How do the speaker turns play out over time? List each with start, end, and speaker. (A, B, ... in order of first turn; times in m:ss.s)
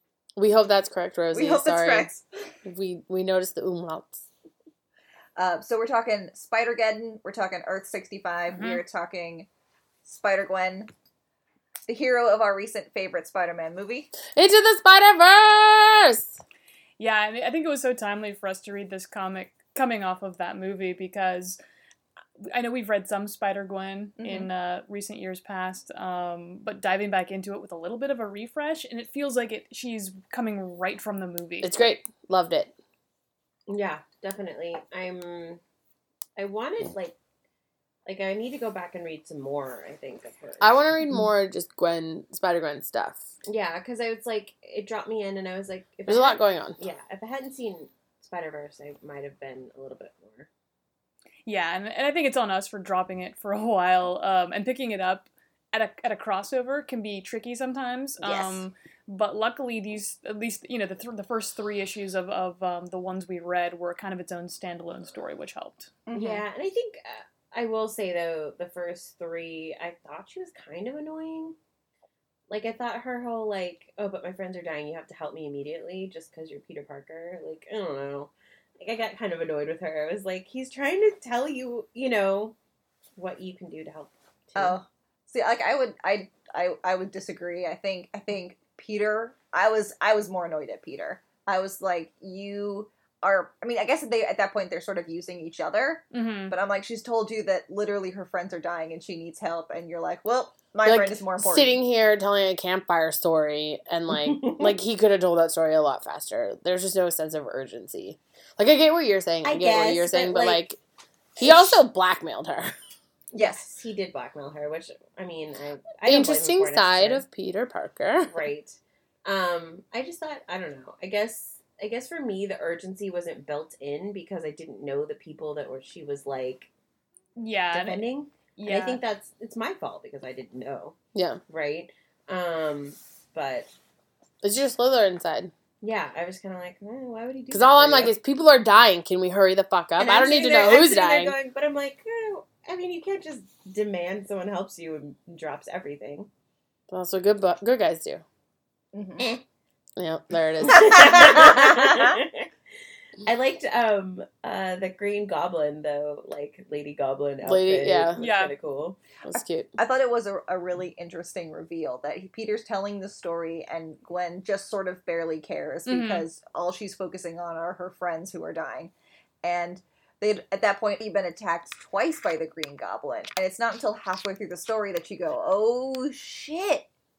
0:00.4-0:02.1 A
0:01.3-0:02.2 B
0:02.6-0:04.3 A
0:05.4-0:09.5 B
0:08.5-0:08.8 C
0:10.0-0:10.9 B
0:11.9-0:14.1 B
0:14.3-0:16.4 A
0:17.0-0:21.6 C
0:22.4-0:32.0 C
0:24.2-0:24.5 B
0:31.6-0:32.7 A
0:33.7-0:35.6 D
0:36.4-0:37.2 D
0:38.1-0:41.0 D
0:40.6-0:43.3 A
0:43.4-0:50.5 D
0:46.1-0:46.8 A
0:51.5-1:06.0 C
0:58.2-0:58.6 B
1:06.1-1:06.5 B
1:06.2-1:11.6 D
1:12.5-1:22.6 D
1:23.2-1:24.8 D
1:24.6-1:41.8 B
1:36.1-1:36.6 C
1:40.8-1:50.8 A
1:44.1-1:44.7 D
1:49.4-1:50.7 D
1:51.4-1:52.7 A
1:51.4-1:51.8 D
1:53.3-1:57.3 D
1:53.4-1:53.7 B
1:56.0-1:58.5 A
1:58.3-2:06.7 D
2:07.4-2:09.0 C
2:07.7-2:11.0 D
2:11.1-2:11.4 A
2:11.5-2:13.7 D
2:14.4-2:15.5 A
2:15.8-2:18.2 D
2:17.5-2:21.4 A
2:20.0-2:26.3 D
2:26.9-2:28.2 A
2:28.9-2:29.3 B
2:30.0-2:31.2 A
2:30.7-2:32.5 D
2:30.8-2:32.1 B
2:33.2-2:39.0 D
2:37.4-2:38.2 A
2:38.2-2:38.5 C
2:39.2-2:39.7 A
2:39.8-2:56.9 B
2:45.9-2:46.3 C